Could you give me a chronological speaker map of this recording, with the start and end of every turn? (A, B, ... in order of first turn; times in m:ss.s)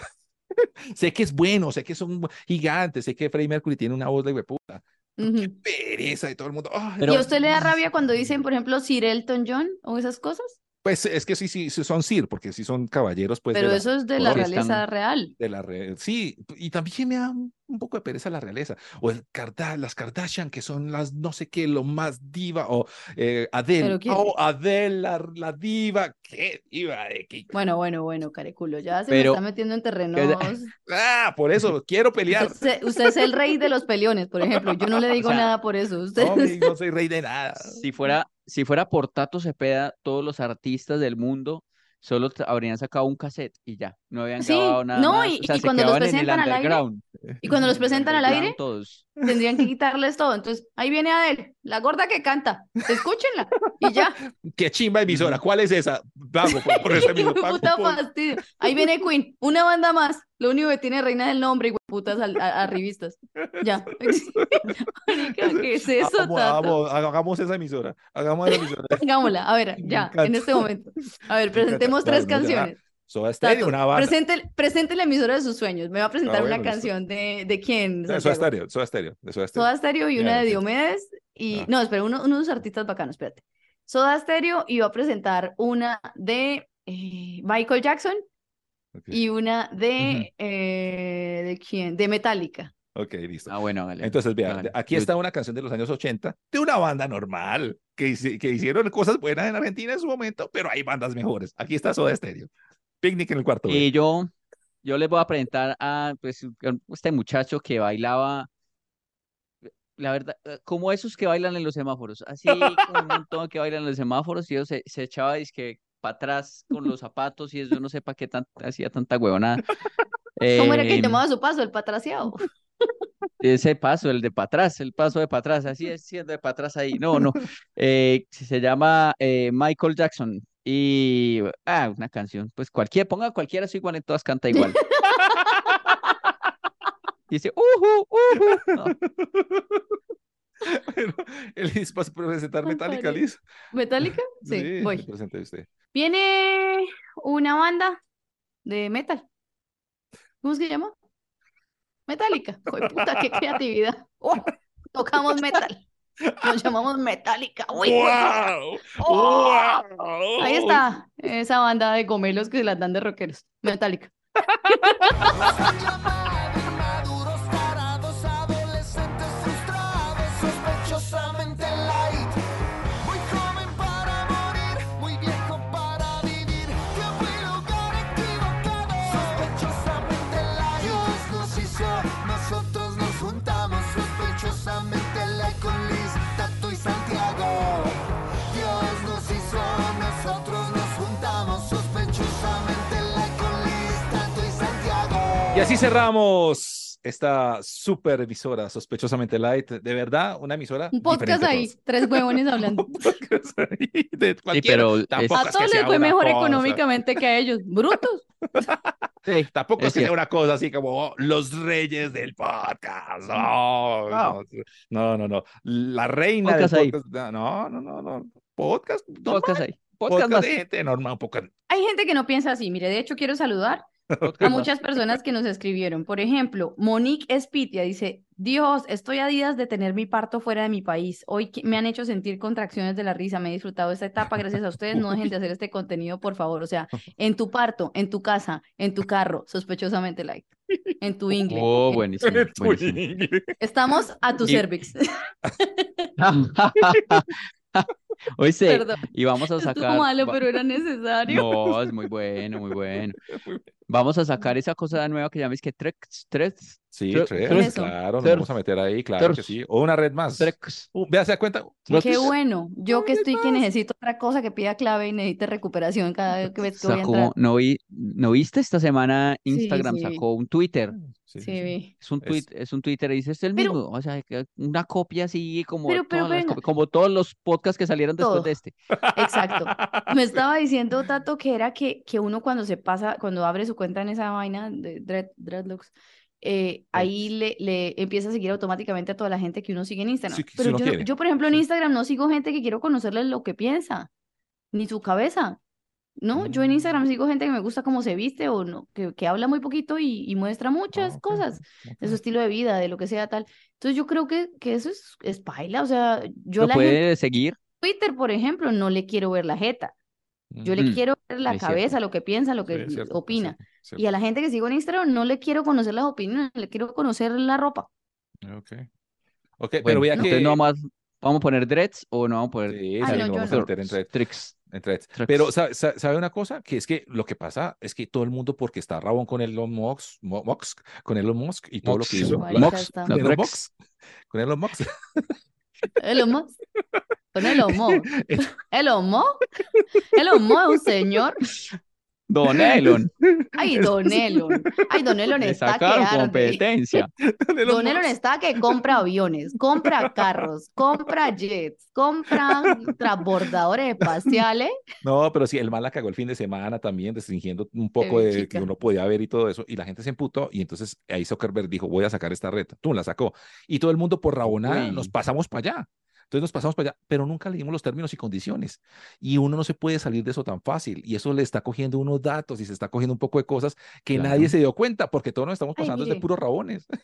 0:00.6-0:07.7 A
0:05.2-0:05.6 B
0:07.0-0:07.2 C
0:07.1-0:10.6 B
0:10.8-0:14.4 A
0:13.5-0:15.3 B
0:14.2-0:14.8 C
0:15.4-0:27.5 A
0:23.8-0:24.3 B
0:27.5-0:30.7 B
0:29.1-0:29.4 C
0:30.1-0:30.6 C
0:30.9-0:32.7 A
0:32.3-0:36.7 B
0:34.5-0:35.1 A
0:35.2-0:35.5 C
0:36.2-0:37.8 A
0:37.6-0:49.1 C
0:44.4-0:46.8 B
0:47.4-0:48.4 A
0:47.4-0:48.6 B
0:49.2-0:54.2 B
0:53.7-0:58.1 A
0:55.1-0:55.4 C
0:56.4-1:06.8 B
1:03.4-1:04.5 A
1:05.1-1:09.0 A
1:08.5-1:12.8 B
1:09.8-1:10.7 A
1:11.5-1:14.2 A
1:13.4-1:18.5 B
1:16.2-1:16.9 A
1:18.1-1:20.6 A
1:19.5-1:28.2 B
1:29.1-1:32.7 B
1:30.0-1:30.3 A
1:32.9-1:42.5 A
1:33.5-1:35.1 C
1:43.0-1:43.9 A
1:43.7-1:44.3 C
1:44.8-1:48.5 C
1:50.0-1:59.7 C
2:00.4-2:01.2 C
2:00.5-2:02.9 B
2:03.4-2:14.8 C
2:14.5-2:15.8 B
2:17.3-2:19.0 C
2:18.8-2:20.0 A
2:20.6-2:23.4 A
2:22.6-2:25.1 B
2:24.0-2:25.7 A
2:25.9-2:28.0 B
2:28.6-2:29.2 B
2:30.4-2:30.9 B
2:32.1-2:35.8 B
2:32.8-2:33.5 A
2:35.3-2:35.6 A
2:36.2-2:36.6 A
2:36.4-2:38.4 B
2:37.8-2:40.8 A
2:39.0-2:39.8 B
2:40.4-2:44.1 B
2:44.5-2:45.4 A
2:44.7-2:45.3 B
2:45.2-2:52.4 D
2:53.0-3:08.0 D
3:08.5-3:15.7 D
3:15.5-3:27.2 A
3:20.9-3:23.1 B
3:24.5-3:25.4 C
3:25.3-3:28.2 B
3:28.5-3:28.9 A
3:29.2-3:30.1 C
3:29.5-3:41.5 A
3:34.1-3:34.4 C
3:36.4-3:37.0 C
3:39.2-3:40.5 C
3:41.7-3:43.8 B
3:44.1-3:44.6 A
3:44.2-3:44.7 C
3:44.4-4:02.0 B
3:54.9-3:55.2 A
4:01.5-4:03.0 C
4:02.2-4:03.6 A
4:03.6-4:06.1 B
4:06.2-4:10.4 C
4:08.7-4:09.0 B
4:09.6-4:11.5 B
4:11.3-4:13.1 C
4:13.0-4:13.6 A
4:13.9-4:18.5 C
4:16.9-4:22.3 A
4:17.5-4:17.9 B
4:19.2-4:19.5 C
4:20.4-4:20.9 C
4:21.9-4:22.3 C
4:21.9-4:27.3 B
4:22.9-4:23.6 C
4:26.6-4:31.0 C
4:29.5-4:30.2 B
4:31.0-4:32.4 A
4:31.4-4:31.9 B
4:32.0-4:38.7 C
4:35.9-4:36.6 B
4:38.2-4:38.5 B
4:38.9-4:40.4 A
4:39.1-4:54.1 B
4:50.3-4:51.6 A
4:54.7-4:55.6 B
4:56.2-5:07.0 B
4:56.3-4:56.8 A
5:00.9-5:02.2 A
5:06.6-5:07.6 C
5:07.8-5:09.9 B
5:10.5-5:10.8 A
5:10.6-5:17.9 B
5:10.8-5:11.9 C
5:12.7-5:14.0 A
5:18.4-5:18.8 A
5:19.6-5:20.6 A
5:19.8-5:24.5 C
5:22.7-5:24.1 A
5:23.0-5:23.6 B
5:24.6-5:33.7 A
5:25.1-5:25.5 C
5:31.8-5:33.6 C
5:32.2-5:33.2 B
5:34.3-5:34.9 A
5:36.0-5:36.5 B
5:37.3-5:39.4 B
5:37.4-5:38.4 A
5:40.1-5:41.4 B
5:40.2-5:40.8 A
5:42.3-5:43.1 C
5:42.5-5:44.7 A
5:43.5-5:46.6 B
5:45.4-5:47.1 C
5:46.9-5:49.0 A
5:47.6-5:54.7 B
5:49.8-5:50.4 A
5:51.0-5:51.3 A
5:52.3-5:52.9 A
5:54.0-5:54.4 A
5:55.0-6:16.9 A
5:58.0-5:58.7 B
6:04.4-6:05.1 C
6:14.1-6:14.5 C
6:15.8-6:16.2 B